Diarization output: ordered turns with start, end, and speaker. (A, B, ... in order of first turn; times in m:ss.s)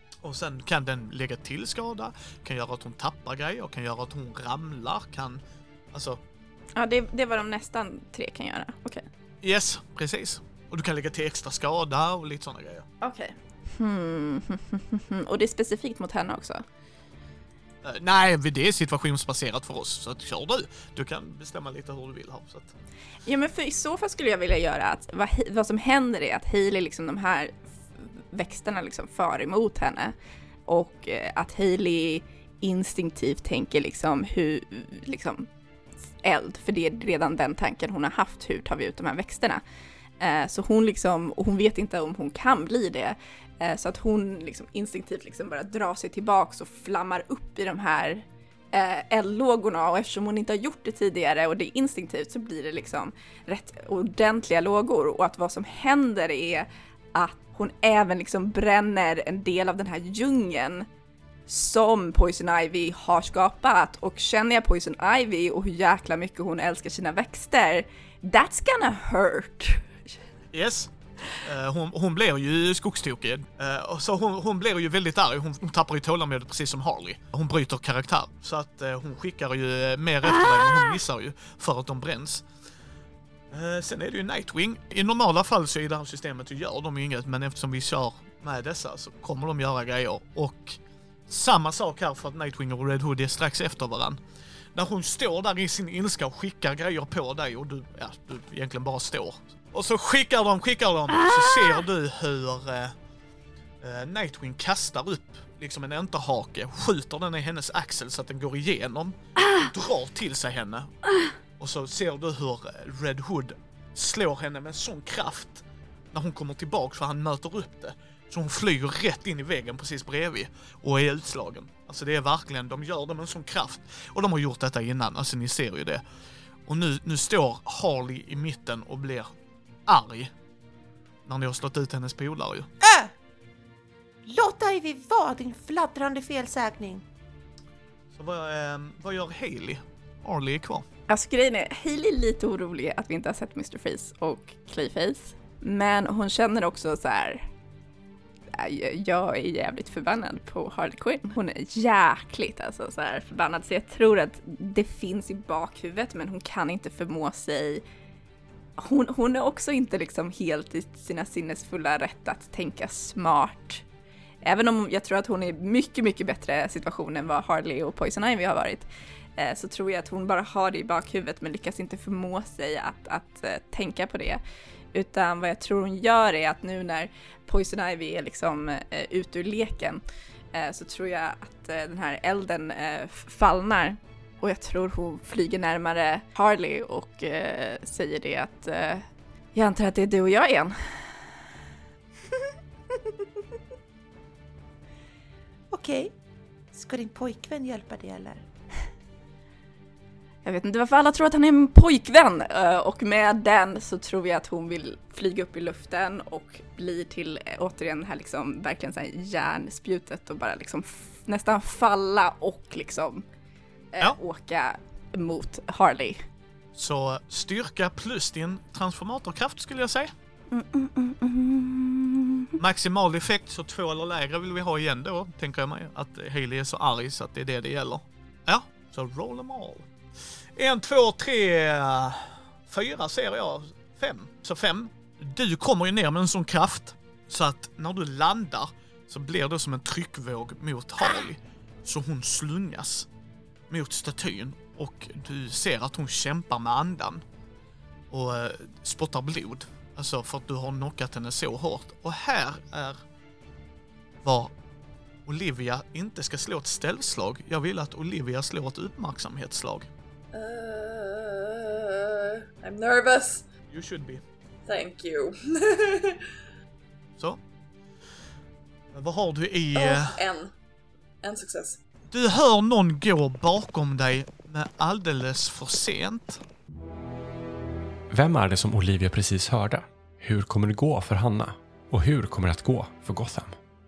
0:00.2-0:05.4 A
0:05.9-0:06.2 A
0:06.8-0:09.0 B
0:09.4-0:12.9 A
0:13.0-0:16.6 B
0:17.8-0:22.8 A
0:23.3-0:30.1 B
0:30.7-0:35.5 B
0:36.2-0:39.6 B
0:40.2-1:00.9 B
1:01.5-1:09.9 B
1:10.5-1:22.4 A
1:23.5-1:34.2 A
1:34.8-1:43.0 A
1:43.8-1:51.0 A
1:51.6-2:06.0 A
2:06.7-2:09.3 A
2:09.9-2:10.3 A
2:11.3-2:12.7 A
2:12.8-2:13.1 C
2:14.3-2:17.0 C
2:18.1-2:20.9 A
2:21.1-2:27.4 B
2:28.5-2:37.8 B
2:38.8-2:43.8 B
2:44.4-2:54.4 B
2:54.9-3:00.0 B
3:00.5-3:11.3 B
3:15.7-3:16.1 C
3:16.7-3:18.4 C
3:20.4-3:33.3 B
3:33.9-3:36.2 B
3:36.8-3:40.1 A
3:40.5-3:42.6 B
3:42.6-3:49.9 A
3:50.6-4:03.1 A
4:03.7-4:07.2 A
4:08.1-4:13.0 A
4:14.2-4:14.5 A
4:15.3-4:19.9 A
4:20.3-4:23.5 D
4:23.7-4:24.2 A
4:24.7-4:26.3 D
4:28.9-4:30.2 A
4:29.8-4:30.5 D
4:31.2-4:31.8 D
4:32.1-4:36.4 A
4:38.1-4:43.6 E